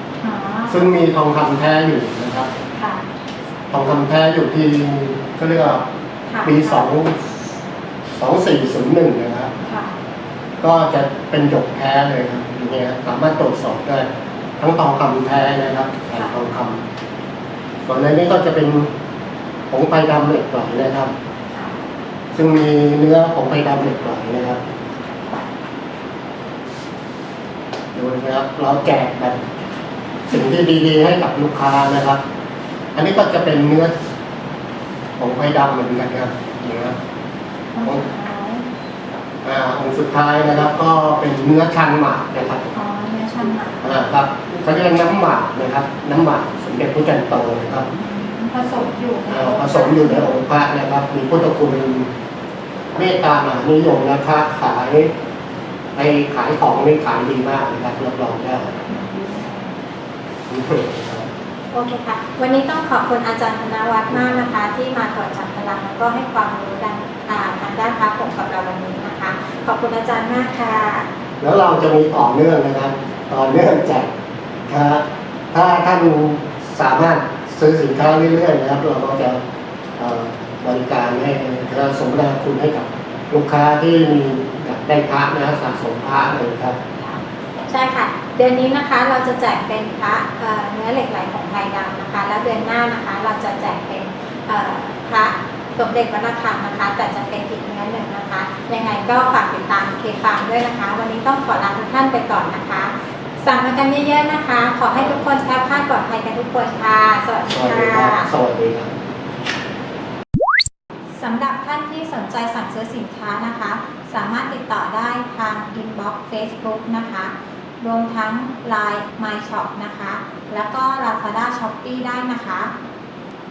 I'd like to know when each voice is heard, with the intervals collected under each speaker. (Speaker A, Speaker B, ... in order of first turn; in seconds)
Speaker A: 0.2-0.8, 2.7-3.0, 6.3-6.9, 9.6-9.9, 21.5-21.8, 37.7-38.6, 42.7-44.0, 48.0-50.3, 58.9-59.7, 61.7-71.1, 87.0-108.3, 111.2-122.7
Speaker B: 0.7-2.5, 3.7-5.8, 6.4-7.4, 8.2-9.5, 10.6-14.1, 14.6-16.8, 17.8-18.9, 19.7-21.1, 22.3-24.6, 27.9-29.4, 30.3-32.2, 32.9-33.9, 35.2-37.0, 39.4-42.8, 43.8-47.9, 49.3-52.1, 52.9-55.1, 56.0-58.7, 60.5-61.3, 71.4-74.1, 74.7-79.4, 80.0-86.8, 107.5-108.9